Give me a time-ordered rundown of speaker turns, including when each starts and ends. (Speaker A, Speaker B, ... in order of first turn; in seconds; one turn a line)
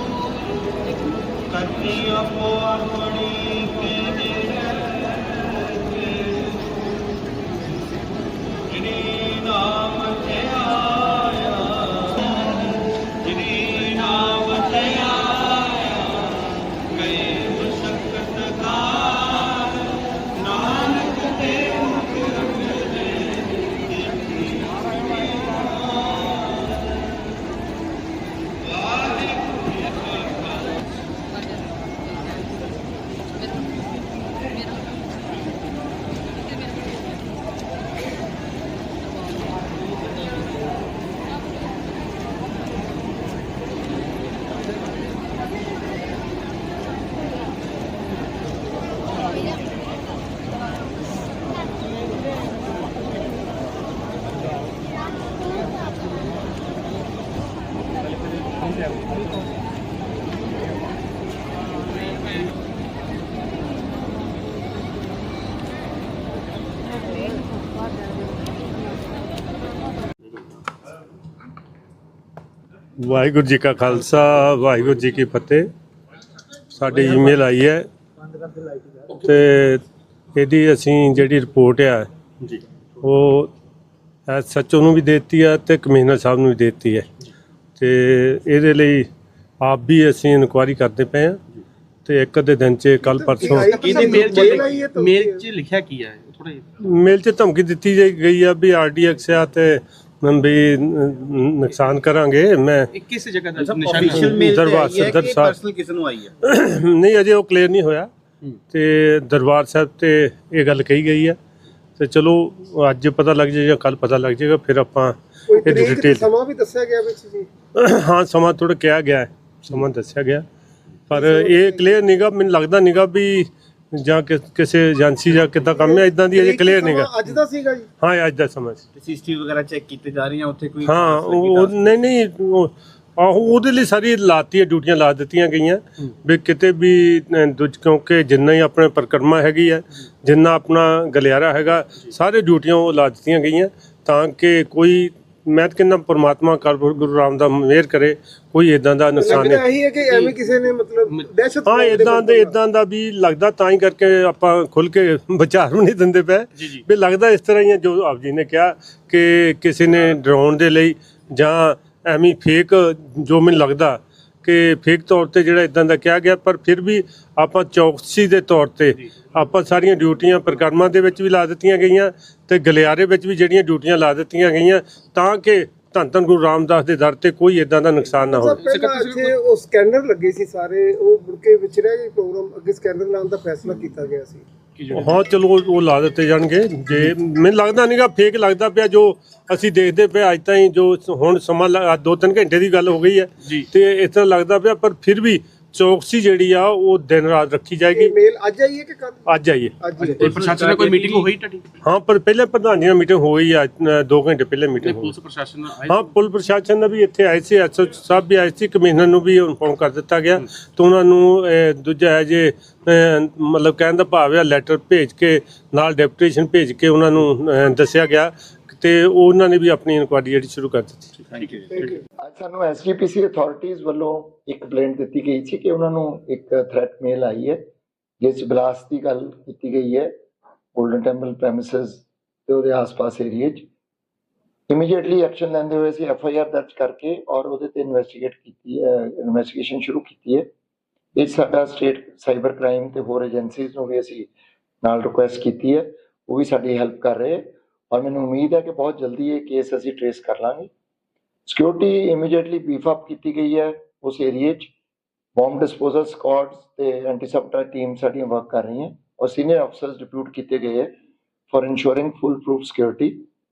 Speaker A: 2.7-3.7
Speaker A: 9.5-12.3
Speaker A: 14.2-16.0
Speaker A: 18.9-19.4
Speaker B: 73.0-75.7
Speaker B: 76.7-77.9
Speaker B: 79.1-79.8
Speaker B: 80.3-82.1
Speaker B: 83.0-83.5
Speaker B: 84.3-87.1
Speaker B: 87.8-89.1
Speaker B: 89.6-91.4
Speaker B: 92.0-93.8
Speaker C: 93.1-95.4
Speaker D: 93.4-96.7
Speaker A: 93.8-94.6
Speaker B: 96.8-102.9
Speaker D: 102.9-104.4
Speaker A: 103.6-106.3
Speaker B: 104.2-105.6
Speaker B: 106.4-108.1
Speaker B: 108.7-111.4
Speaker B: 112.0-116.3
Speaker C: 115.5-117.5
Speaker B: 117.8-120.5
Speaker B: 121.1-127.2
Speaker C: 121.1-122.0
Speaker C: 125.7-127.9
Speaker B: 128.0-128.8
Speaker A: 128.9-132.0
Speaker B: 130.8-149.7
Speaker C: 149.2-152.6
Speaker D: 150.0-150.3
Speaker B: 151.7-178.6
Speaker C: 178.3-184.4
Speaker D: 178.6-179.3
Speaker D: 184.8-185.2
Speaker B: 184.9-198.1
Speaker C: 197.9-200.3
Speaker B: 199.3-199.8
Speaker D: 200.0-201.7
Speaker A: 200.1-201.3
Speaker B: 201.8-205.2
Speaker D: 204.8-206.1
Speaker B: 205.9-221.1
Speaker A: 221.2-221.9
Speaker D: 221.3-221.7
Speaker E: 222.2-227.6
Speaker E: 228.2-230.1
Speaker E: 230.8-233.7
Speaker E: 234.7-240.5
Speaker E: 241.2-244.3
Speaker E: 244.8-250.7
Speaker E: 251.5-254.7
Speaker E: 255.4-260.9
Speaker E: 261.5-263.2